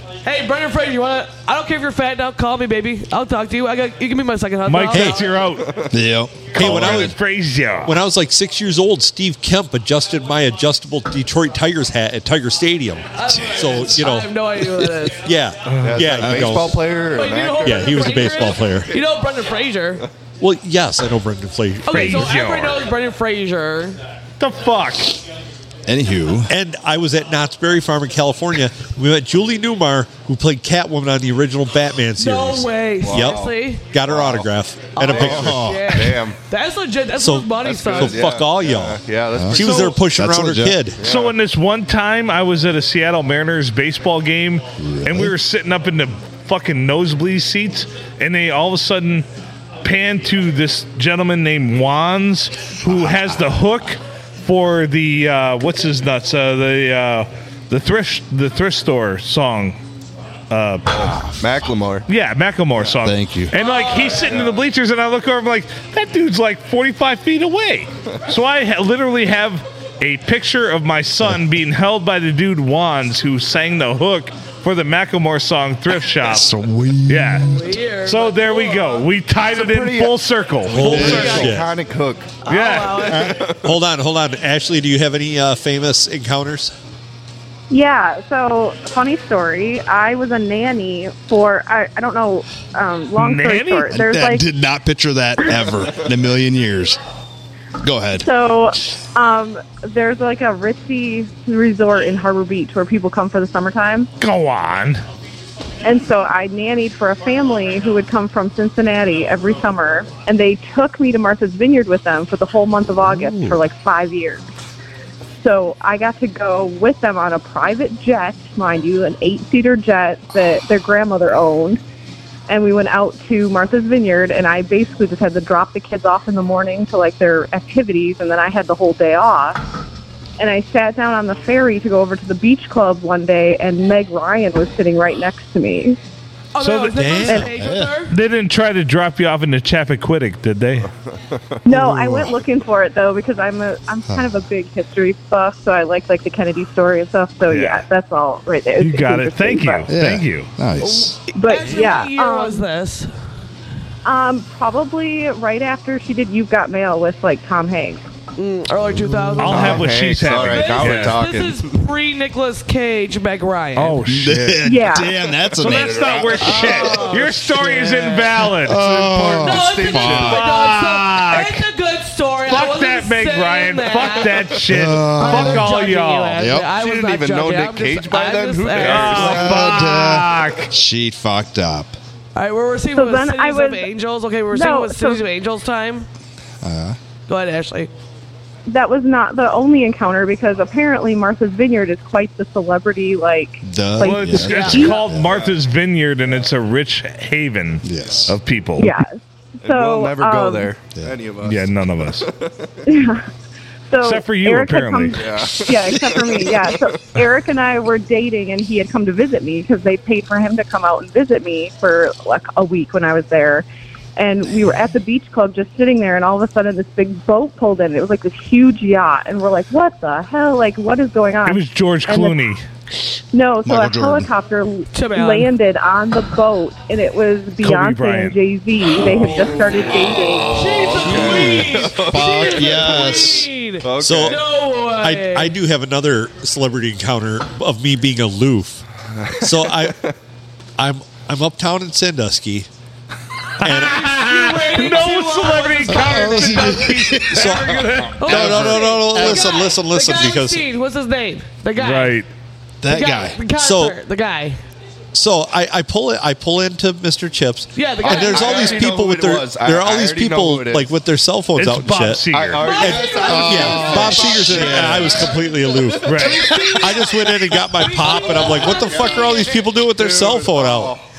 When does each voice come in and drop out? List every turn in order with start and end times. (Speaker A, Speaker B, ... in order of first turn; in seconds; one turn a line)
Speaker A: 0.2-5.4
Speaker B: 4.6-5.8
Speaker C: 4.9-5.3
Speaker D: 5.6-5.9
Speaker E: 5.9-7.1
Speaker B: 6.5-7.9
Speaker C: 6.6-7.1
Speaker C: 7.8-14.3
Speaker A: 13.1-15.3
Speaker E: 13.3-14.0
Speaker C: 15.1-16.8
Speaker B: 15.7-16.0
Speaker D: 15.8-18.0
Speaker A: 16.9-20.1
Speaker C: 17.6-18.9
Speaker C: 20.4-22.3
Speaker A: 21.9-24.0
Speaker B: 21.9-22.8
Speaker B: 24.4-25.2
Speaker E: 25.9-26.5
Speaker C: 26.5-35.8
Speaker A: 32.2-33.9
Speaker D: 33.0-34.5
Speaker A: 34.9-38.2
Speaker D: 35.0-36.4
Speaker E: 35.4-35.9
Speaker C: 37.2-41.0
Speaker D: 37.6-40.0
Speaker E: 39.3-40.9
Speaker D: 41.0-41.4
Speaker B: 41.0-49.3
Speaker E: 44.8-45.4
Speaker B: 49.8-59.8
Speaker B: 60.5-61.0
Speaker D: 61.4-62.1
Speaker B: 62.1-77.5
Speaker E: 63.0-63.5
Speaker A: 63.5-64.5
Speaker D: 64.3-64.6
Speaker E: 76.2-77.5
Speaker A: 77.4-79.1
Speaker B: 78.0-81.5
Speaker D: 79.5-80.2
Speaker C: 80.7-81.7
Speaker E: 80.8-81.3
Speaker A: 80.8-81.6
Speaker D: 81.0-82.4
Speaker A: 82.4-83.4
Speaker B: 82.5-83.3
Speaker D: 83.2-83.6
Speaker C: 83.6-86.7
Speaker F: 87.7-94.4
Speaker B: 93.2-93.9
Speaker E: 93.9-97.0
Speaker E: 97.8-98.3
Speaker F: 98.2-104.1
Speaker B: 104.2-105.0
Speaker F: 105.8-114.4
Speaker B: 113.1-113.6
Speaker F: 115.4-121.8
Speaker F: 122.5-129.6
Speaker F: 130.4-136.0
Speaker A: 136.5-138.2
Speaker B: 136.6-136.9
Speaker C: 136.9-137.5
Speaker E: 137.3-138.0
Speaker B: 138.1-140.9
Speaker F: 141.7-149.9
Speaker E: 141.7-142.4
Speaker B: 147.5-147.8
Speaker B: 148.8-150.5
Speaker E: 149.9-151.2
Speaker A: 150.8-153.1
Speaker F: 151.3-152.7
Speaker F: 154.1-158.0
Speaker A: 158.4-164.1
Speaker E: 158.9-159.4
Speaker B: 159.4-161.2
Speaker D: 159.4-161.7
Speaker B: 163.8-164.6
Speaker E: 164.1-167.2
Speaker F: 164.6-165.2
Speaker B: 165.6-169.6
Speaker A: 165.7-168.5
Speaker E: 168.6-170.4
Speaker A: 169.4-174.6
Speaker D: 169.5-170.5
Speaker B: 170.1-171.6
Speaker B: 172.5-176.4
Speaker E: 174.6-175.8
Speaker A: 175.2-179.5
Speaker E: 176.4-176.8
Speaker D: 176.6-179.7
Speaker B: 178.8-180.7
Speaker E: 179.3-182.0
Speaker A: 182.3-186.1
Speaker F: 182.9-183.9
Speaker F: 184.5-185.2
Speaker E: 186.6-187.0
Speaker A: 187.3-187.9
Speaker F: 188.7-194.9
Speaker E: 193.6-195.4
Speaker B: 194.0-198.9
Speaker A: 194.3-195.0
Speaker D: 195.3-195.6
Speaker E: 197.8-198.4
Speaker F: 198.8-200.7
Speaker D: 199.6-202.8
Speaker B: 201.4-202.3
Speaker F: 202.9-203.3
Speaker F: 203.9-213.7
Speaker B: 204.0-205.2
Speaker D: 205.2-207.1
Speaker F: 214.2-222.5
Speaker B: 221.5-222.6
Speaker F: 223.3-230.8
Speaker E: 223.6-224.3
Speaker A: 224.9-225.6
Speaker B: 227.6-228.4
Speaker A: 230.5-235.6
Speaker D: 230.8-233.3
Speaker E: 231.0-233.5
Speaker D: 233.8-234.5
Speaker C: 234.0-234.4
Speaker C: 234.9-238.8
Speaker D: 239.2-240.1
Speaker C: 239.4-240.0
Speaker C: 240.8-242.7
Speaker B: 243.6-248.2
Speaker C: 243.6-244.1
Speaker A: 243.7-247.6
Speaker E: 246.1-247.4
Speaker C: 247.3-250.6
Speaker A: 248.1-252.2
Speaker E: 248.2-249.7
Speaker B: 251.8-252.3
Speaker E: 252.8-253.4
Speaker A: 252.9-254.6
Speaker C: 253.5-254.0
Speaker C: 255.1-271.0
Speaker A: 257.8-258.9
Speaker D: 258.0-260.9
Speaker B: 261.6-262.8
Speaker D: 262.3-267.0
Speaker A: 262.5-265.3
Speaker E: 263.2-265.0
Speaker A: 265.9-269.7
Speaker B: 266.1-266.5
Speaker D: 268.7-269.2
Speaker D: 269.9-271.0